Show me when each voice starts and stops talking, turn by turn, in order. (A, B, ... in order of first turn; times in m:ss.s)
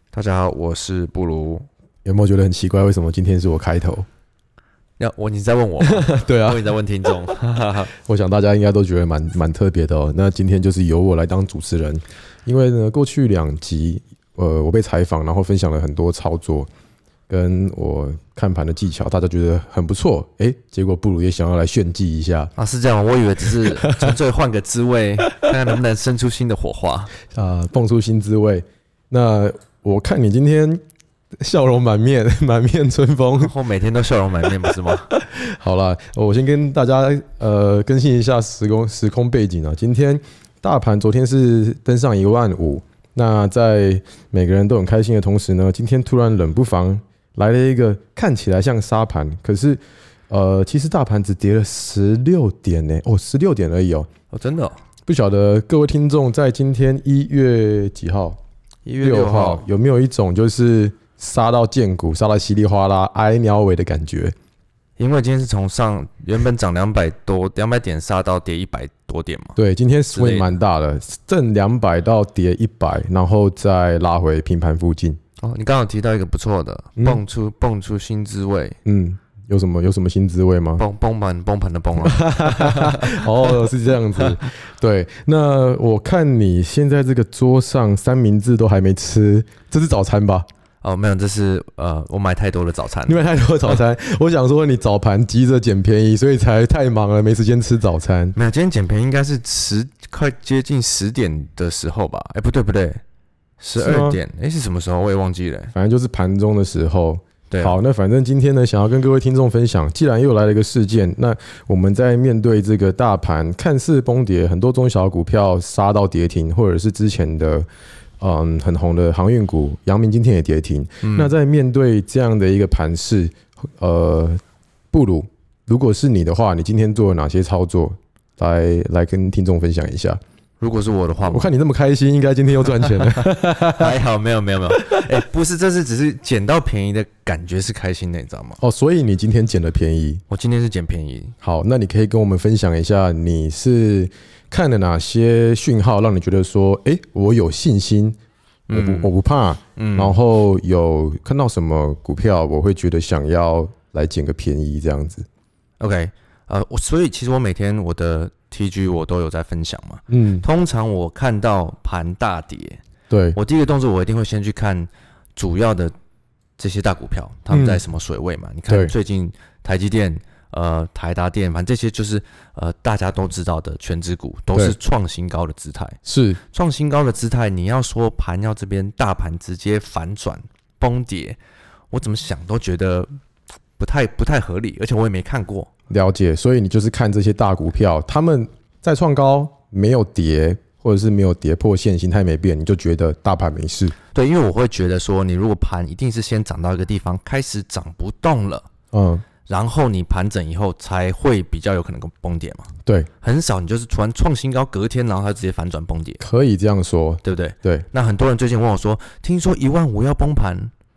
0:00.1-0:01.6 A
0:02.0-0:04.0 B
0:05.0-0:07.9 A
0:05.8-0:06.7 B
0:08.0-0:16.7 B
0:17.3-0:22.5 B
0:22.6-0:27.1 A
0:23.6-0:24.2 B
0:27.3-0:30.8 B
0:31.4-0:33.5 B
0:33.3-0:35.1 A
0:35.1-0:54.1 B
0:54.3-0:54.8 A
0:55.1-0:58.4 B
0:58.8-0:59.6 A
0:59.0-1:04.3 B
1:05.0-1:09.6 A
1:09.6-1:15.2 B
1:10.1-1:10.5 A
1:15.4-1:18.8 A
1:17.0-1:17.2 B
1:18.8-1:20.8 B
1:20.8-1:23.6 A
1:22.0-1:30.4 B
1:30.8-1:33.8 A
1:33.1-1:38.4 B
1:38.3-1:43.0 A
1:43.6-1:45.7 A
1:43.8-1:44.2 B
1:45.7-1:57.7 B
1:47.5-1:47.8 A
1:58.2-2:04.4 B
2:01.0-2:01.3 A
2:04.9-2:10.2 B
2:10.6-2:11.5 A
2:11.2-2:14.0 B
2:13.7-2:18.6 A
2:18.6-2:20.2 B
2:20.3-2:21.3 A
2:21.4-2:28.2 B
2:28.7-2:29.1 A
2:28.7-2:35.2 B
2:29.8-2:30.2 A
2:35.8-2:42.8 A
2:40.1-2:40.4 B
2:43.1-2:43.4 B
2:43.3-2:45.9 A
2:46.6-2:56.0 A
2:47.5-2:47.8 B
2:48.7-2:48.9 B
2:56.0-2:56.4 B
2:56.5-3:01.4 A
3:01.9-3:03.1 A
3:03.8-3:05.7 A
3:05.9-3:13.9 B
3:14.1-3:18.7 A
3:18.9-3:19.2 B
3:19.5-3:22.7 A
3:23.2-3:26.2 A
3:26.2-3:27.8 B
3:27.2-3:30.7 A